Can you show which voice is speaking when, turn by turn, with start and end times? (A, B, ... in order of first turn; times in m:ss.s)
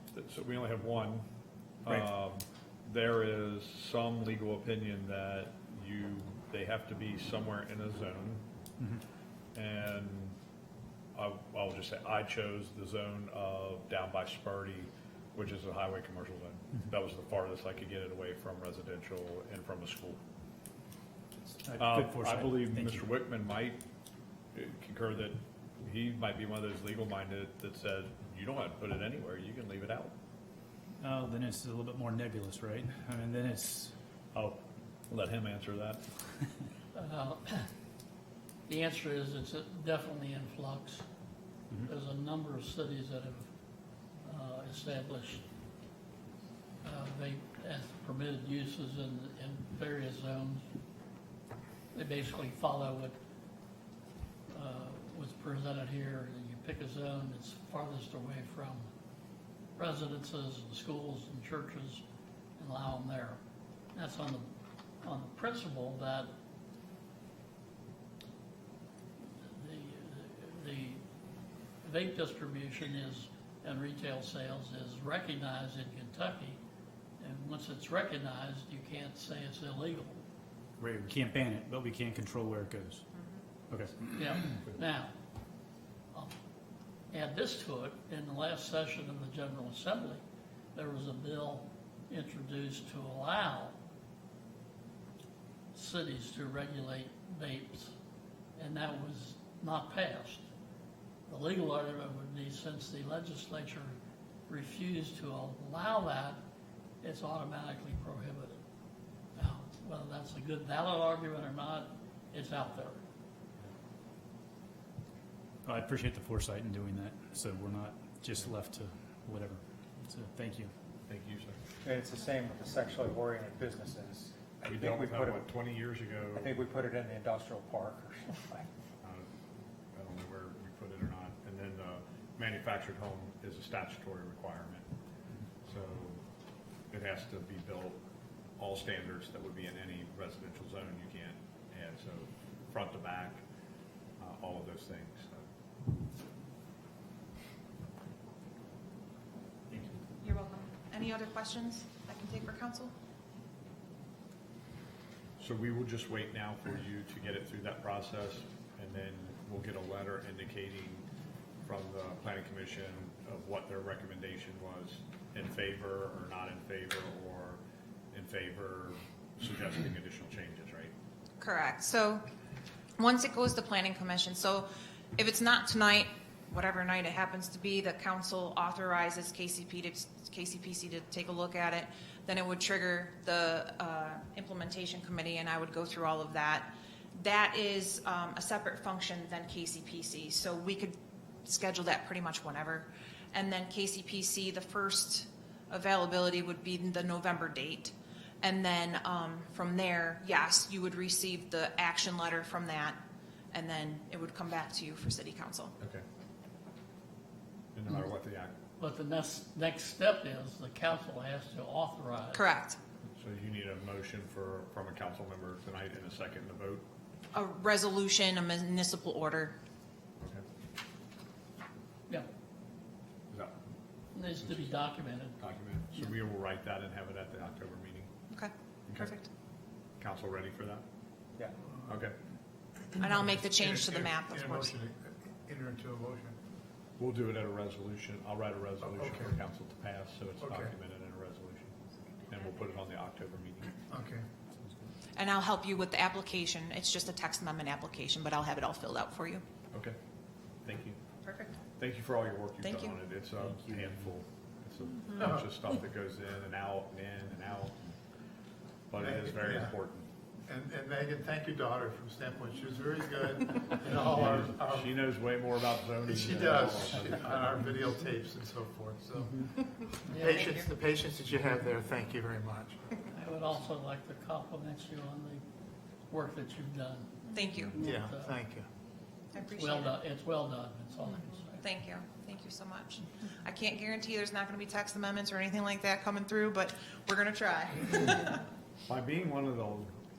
0:00.1-0:01.2 A
0:01.8-0:08.4 A
0:09.5-0:10.4 A
0:11.1-0:20.2 A
0:21.6-0:23.0 B
0:21.8-0:23.8 A
0:24.5-0:30.1 A
0:31.0-0:33.9 B
0:34.3-0:36.0 A
0:36.9-0:37.7 C
0:38.7-0:41.0 C
0:41.8-0:43.5 C
0:44.2-0:45.4 C
0:46.8-0:50.7 C
0:51.9-0:53.2 C
0:54.5-0:58.9 C
0:59.8-1:02.0 C
1:02.6-1:03.4 C
1:03.9-1:04.5 C
1:05.0-1:06.3 C
1:09.2-1:11.0 C
1:11.8-1:16.6 C
1:17.2-1:20.2 C
1:20.8-1:23.1 B
1:23.7-1:24.6 B
1:24.1-1:25.1 C
1:27.1-1:30.2 C
1:30.8-1:33.8 C
1:35.7-1:37.9 C
1:38.6-1:40.4 C
1:41.3-1:44.0 C
1:44.5-1:46.4 C
1:47.0-1:48.6 C
1:49.4-1:53.0 C
1:55.6-2:00.7 B
2:01.1-2:01.6 A
2:01.8-2:05.6 D
2:04.7-2:06.5 A
2:06.3-2:08.7 D
2:09.0-2:09.3 A
2:09.9-2:14.8 A
2:15.7-2:16.2 A
2:16.9-2:18.0 A
2:18.6-2:23.4 A
2:24.2-2:25.4 A
2:30.2-2:32.9 E
2:35.4-2:41.0 A
2:41.6-2:47.6 A
2:48.1-2:50.9 A
2:51.4-2:52.2 E
2:53.0-3:23.0 E
3:23.5-3:25.7 E
3:27.7-3:28.5 A
3:28.8-3:32.4 C
3:32.3-3:32.8 E
3:33.1-3:36.8 A
3:37.3-3:39.6 E
3:44.1-3:45.4 C
3:44.4-3:44.7 A
3:45.4-3:48.1 A
3:48.3-3:49.3 E
3:50.0-3:50.8 A
3:51.9-3:52.1 A
3:53.0-3:54.8 E
3:53.2-3:56.4 F
3:57.0-4:01.7 A
3:58.8-3:59.4 F
4:00.4-4:00.7 F
4:02.3-4:03.8 A
4:03.9-4:04.2 F
4:05.2-4:09.4 E
4:10.6-4:11.0 A
4:11.2-4:11.6 E
4:11.7-4:17.7 A
4:12.6-4:13.0 E
4:13.4-4:14.1 B
4:15.2-4:15.5 F
4:18.9-4:20.1 A
4:19.0-4:19.8 F
4:20.5-4:24.9 F
4:23.9-4:27.7 A
4:26.0-4:29.5 F
4:30.1-4:30.4 C
4:30.1-4:32.8 F
4:30.2-4:30.8 E
4:33.1-4:35.4 C
4:36.1-4:38.4 C
4:37.3-4:37.8 E
4:37.8-4:38.7 F
4:39.3-4:40.0 E
4:39.5-4:41.6 C
4:41.0-4:48.4 E
4:48.9-4:49.9 A